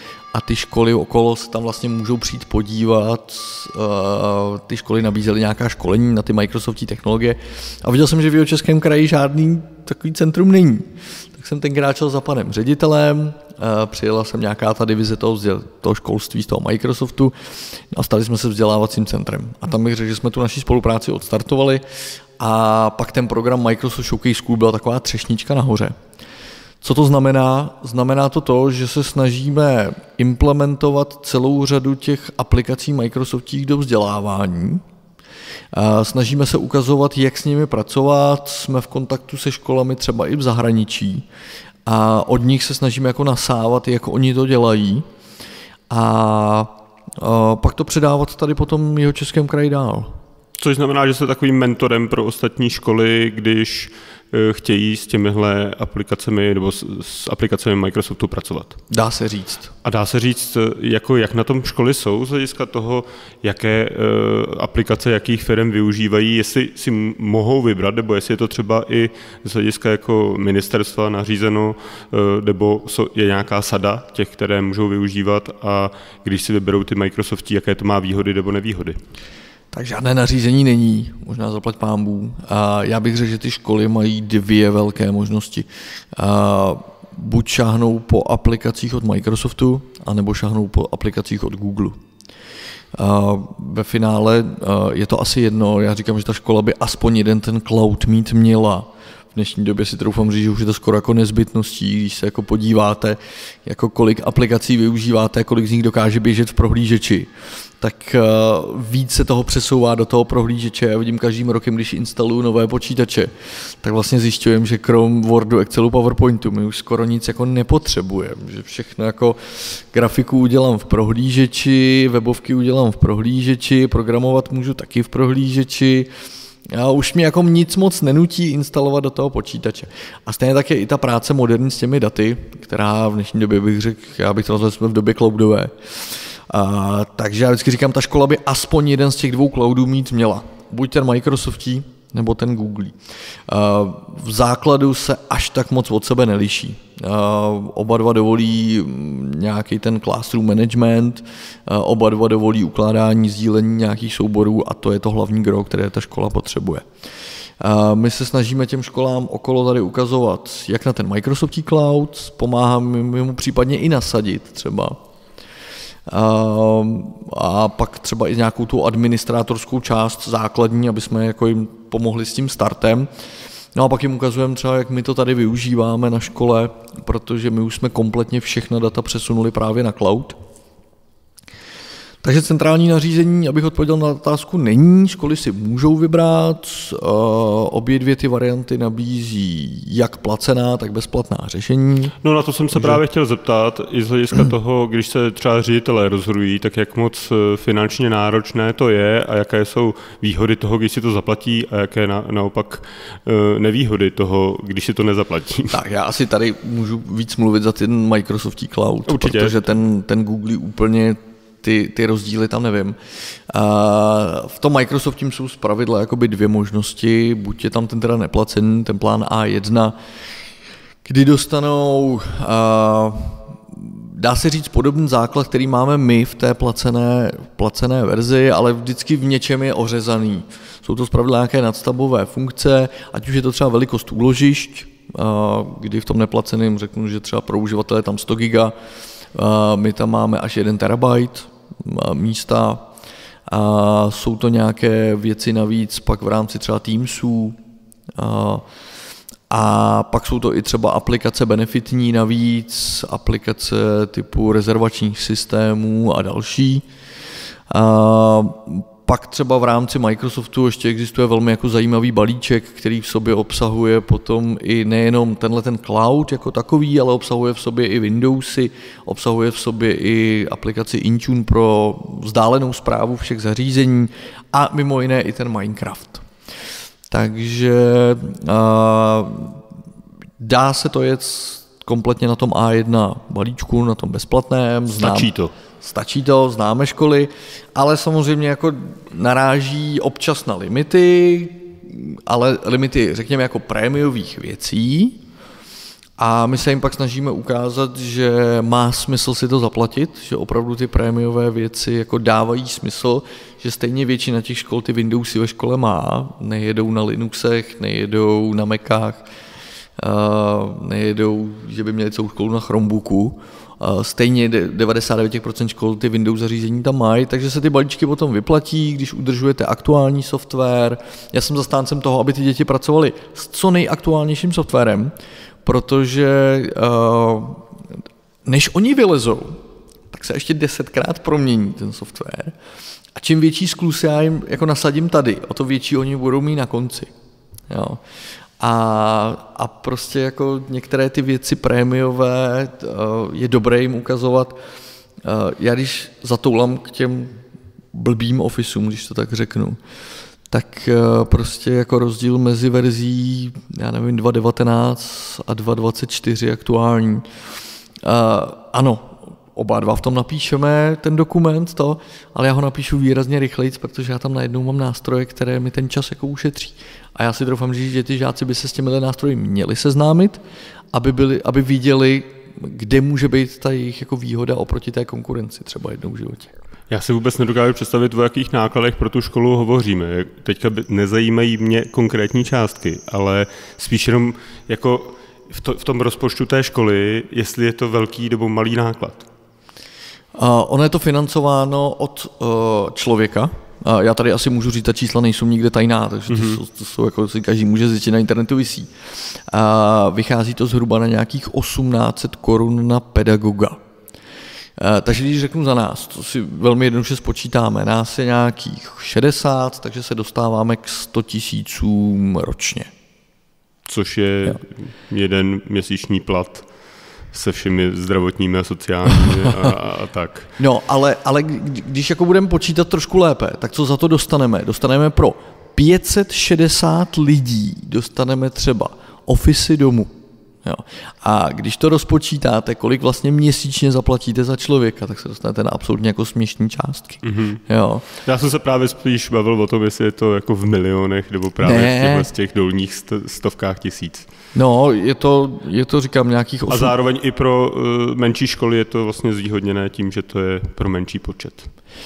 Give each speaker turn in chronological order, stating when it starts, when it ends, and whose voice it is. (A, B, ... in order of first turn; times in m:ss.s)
0:00.3-0:21.8 A
0:22.4-0:26.0 A
0:26.8-0:34.8 A
0:35.7-0:41.2 A
0:41.9-0:45.1 A
0:45.9-0:50.2 A
0:50.6-0:58.8 B
0:58.9-0:59.7 A
0:59.8-1:19.0 B
1:19.7-1:32.0 A
1:33.0-2:06.1 A
2:06.7-2:23.0 A
2:23.5-2:36.8 A
2:37.6-2:45.0 A
2:46.1-2:53.1 A
2:53.8-3:00.4 A
3:02.2-3:12.2 A
3:12.2-3:25.8 B
3:12.7-3:13.0 A
3:25.7-3:33.0 A
3:29.1-3:29.6 B
3:33.5-3:40.0 A
3:41.0-3:58.8 A
3:59.3-4:02.9 A
4:03.5-4:07.6 A
4:08.2-4:08.6 A
4:09.5-4:16.8 A
4:17.7-4:36.2 A
4:37.1-4:39.6 A
4:40.4-4:55.2 A
4:45.0-4:45.5 B
4:56.2-5:09.3 A
5:10.0-5:27.6 A
5:28.5-5:29.6 A
5:30.1-5:32.6 A
5:33.2-5:37.1 A
5:37.7-5:38.0 A
5:38.6-5:44.6 A
5:45.2-5:47.4 A
5:47.9-5:49.8 A
5:50.5-5:57.3 A
5:58.0-6:10.4 A
6:10.9-6:16.5 A
6:16.9-6:29.3 B
6:30.4-6:43.8 A
6:36.3-6:36.6 B
6:44.8-6:52.9 A
6:53.8-6:56.7 B
6:57.3-7:00.5 B
7:00.6-7:10.1 A
7:10.6-7:18.0 A
7:17.2-7:24.3 B
7:21.6-7:22.3 A
7:24.6-7:26.9 A
7:26.7-7:31.7 B